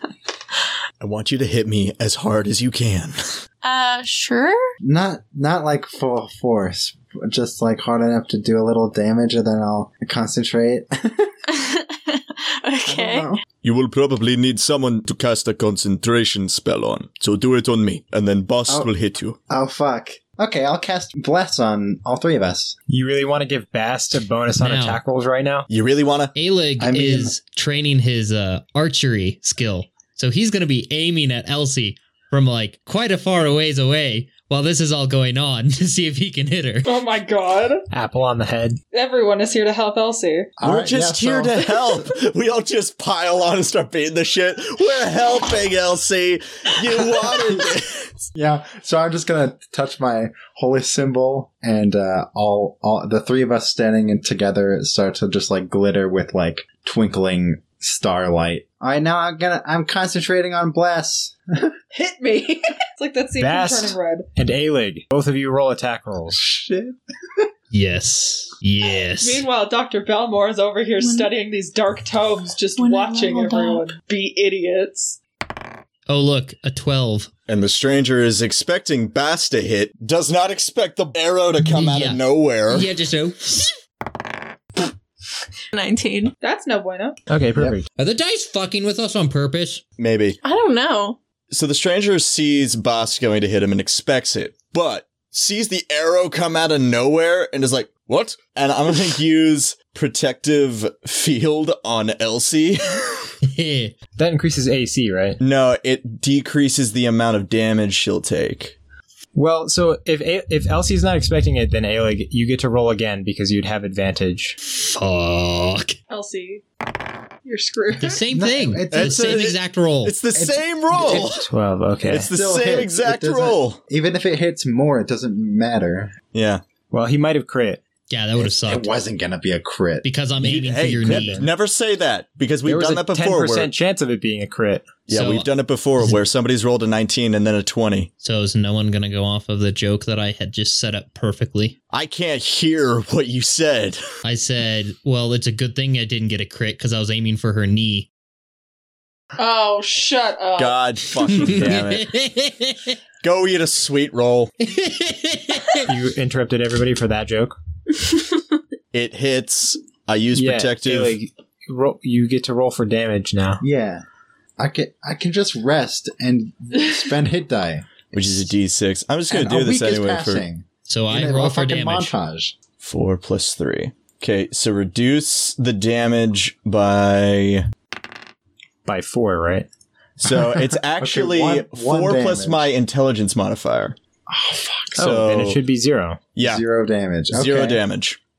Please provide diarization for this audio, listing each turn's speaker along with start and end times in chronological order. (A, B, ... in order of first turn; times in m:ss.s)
0:01.0-0:03.4 A
0:03.6-0:04.6 B
0:04.8-0:11.3 C
0:11.5-0:13.3 B
0:12.9-0:13.4 C
0:13.6-0:19.4 A
0:19.5-0:22.8 C
0:22.9-0:25.7 D
0:24.6-0:25.0 E
0:25.7-0:26.3 A
0:26.3-0:36.9 E
0:26.8-0:27.4 C
0:36.8-0:37.9 F
0:37.9-0:38.8 D
0:38.9-0:40.5 F
0:40.6-0:42.1 C
0:40.6-0:48.3 A
0:48.3-1:01.7 C
1:01.9-1:04.3 F
1:03.4-1:06.4 D
1:06.3-1:07.4 C
1:07.7-1:09.4 E
1:09.2-1:15.2 F
1:11.0-1:11.3 B
1:12.8-1:13.9 B
1:16.1-1:17.3 E
1:17.5-1:22.9 A
1:21.6-1:22.2 E
1:22.7-1:23.7 E
1:25.7-1:26.3 B
1:26.4-1:27.2 F
1:27.3-1:27.8 D
1:28.0-1:29.8 E
1:30.0-1:30.4 A
1:30.4-1:31.2 B
1:31.5-1:43.3 A
1:43.4-1:43.9 E
1:44.2-1:45.4 D
1:45.4-1:48.7 A
1:49.3-1:54.6 D
1:54.7-1:55.9 E
1:56.1-1:56.6 F
1:57.4-1:58.2 F
1:58.0-2:00.2 E
1:58.3-1:59.5 C
1:58.9-2:01.4 A
2:00.3-2:01.3 C
2:01.0-2:02.3 D
2:02.0-2:03.8 A
2:02.2-2:06.1 C
2:06.3-2:06.6 A
2:06.9-2:07.8 D
2:08.1-2:08.9 E
2:08.4-2:10.1 C
2:10.0-2:11.5 E
2:10.4-2:13.7 A
2:11.0-2:11.5 D
2:12.6-2:14.9 D
2:15.1-2:18.1 A
2:15.1-2:16.2 E
2:18.2-2:21.8 E
2:21.9-2:24.0 A
2:24.2-2:28.1 E
2:29.4-2:30.8 F
2:30.6-2:32.1 A
2:31.2-2:33.0 E
2:33.2-2:34.5 A
2:34.6-2:35.8 E
2:35.8-2:37.5 D
2:38.9-2:41.2 A
2:40.3-2:43.6 D
2:43.6-2:44.0 C
2:44.6-2:47.9 C
2:48.1-2:50.4 A
2:49.3-2:52.6 C
2:50.9-2:52.1 E
2:52.8-2:57.7 A
2:58.8-2:59.7 D
3:00.2-3:04.0 A
3:00.4-3:02.7 C
3:04.3-3:05.2 C
3:05.0-3:06.2 D
3:05.0-3:05.6 A
3:06.3-3:06.6 A
3:06.4-3:07.8 C
3:07.3-3:08.2 A